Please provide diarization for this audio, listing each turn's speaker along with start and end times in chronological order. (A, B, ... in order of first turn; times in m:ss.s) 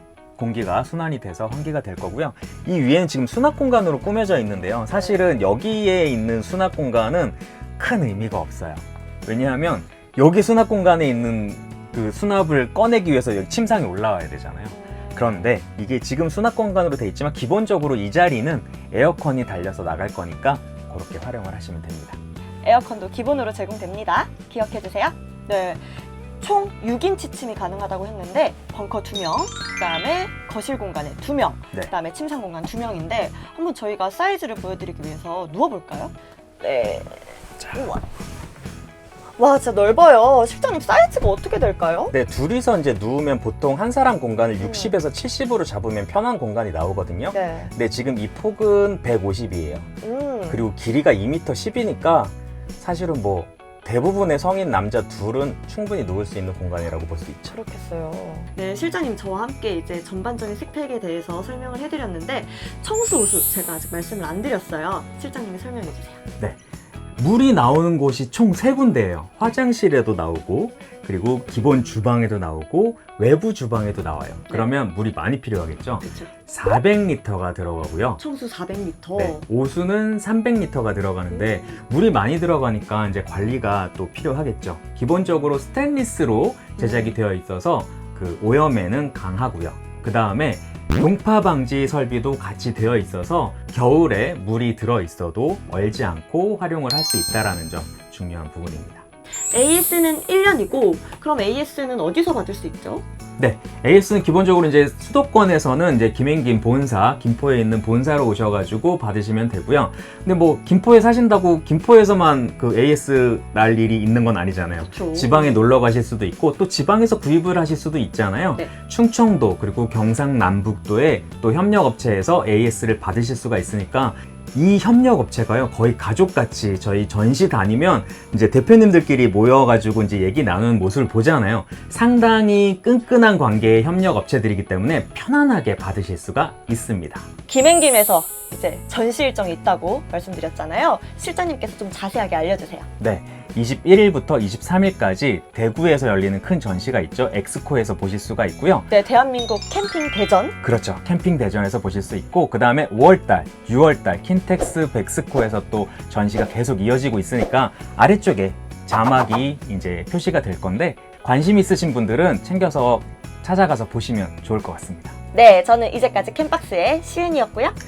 0:00.4-0:22.2 A
0:04.9-0:05.2 B
0:14.7-0:15.3 B
0:22.6-0:25.8 B
0:26.4-0:37.2 B
0:37.7-0:38.0 B
0:39.4-0:42.1 B
0:42.1-0:49.9 A
0:44.6-0:44.9 B
0:47.3-0:47.7 B
0:50.0-0:50.6 B
0:50.5-0:57.5 A
0:57.5-1:06.2 B
1:07.2-1:18.2 A
1:16.0-1:16.3 B
1:18.2-1:19.4 B
1:19.2-1:39.0 A
1:26.8-1:27.2 B
1:39.5-1:43.0 B
1:43.4-2:17.2 A
1:54.8-1:55.6 B
2:17.5-2:22.9 B
2:23.0-2:28.9 A
2:28.9-2:30.6 B
2:30.6-2:45.1 A
2:45.3-2:47.8 B